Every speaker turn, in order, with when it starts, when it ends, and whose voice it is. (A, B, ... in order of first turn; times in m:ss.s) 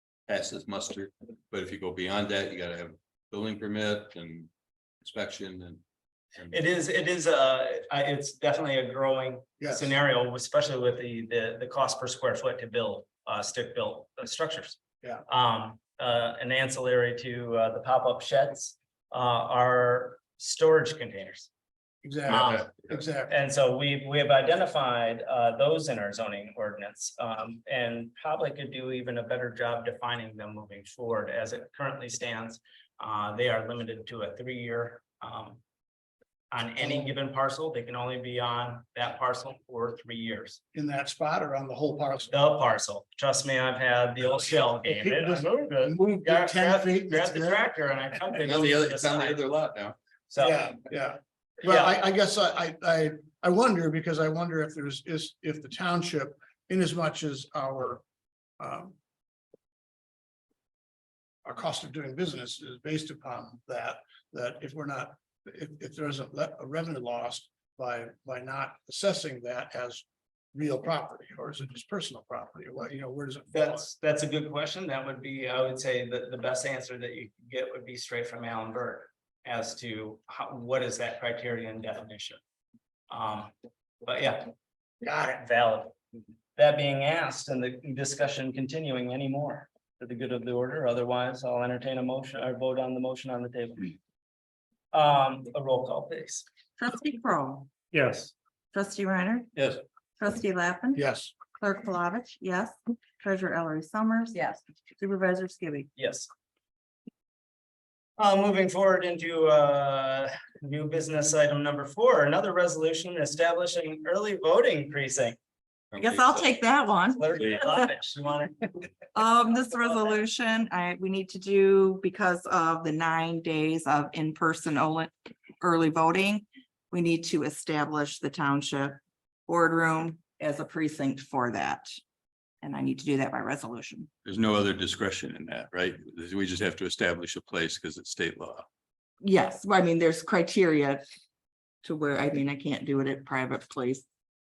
0:00.3-0:04.5 A
0:05.0-0:05.8 A
0:06.5-0:21.5 B
0:09.6-0:09.9 C
0:22.0-0:23.4 C
0:22.3-0:35.6 B
0:36.5-0:40.6 B
0:36.8-0:37.1 C
0:40.7-0:42.3 C
0:42.3-0:49.4 B
0:44.8-0:47.7 C
0:48.4-0:50.0 A
0:50.3-0:50.8 B
0:50.4-0:58.0 C
0:51.6-0:52.0 B
0:58.6-0:59.0 C
1:01.4-1:13.9 C
1:13.5-1:22.4 B
1:23.1-1:23.5 B
1:24.0-1:24.5 B
1:25.0-1:25.4 C
1:25.3-1:25.9 B
1:26.6-1:34.0 B
1:34.9-1:36.4 B
1:36.8-1:37.7 D
1:37.9-1:38.3 A
1:38.7-1:39.5 D
1:39.6-1:39.8 A
1:40.2-1:41.0 D
1:40.9-1:41.3 C
1:41.5-1:44.4 D
1:45.0-1:45.9 D
1:46.0-1:46.3 B
1:48.2-1:55.4 B
1:55.9-1:56.6 A
1:56.0-1:57.2 D
1:57.1-1:58.8 B
1:59.1-2:11.9 D
2:12.6-2:14.1 D
2:14.2-2:18.6 A
2:19.2-2:21.0 D
2:21.8-2:24.0 D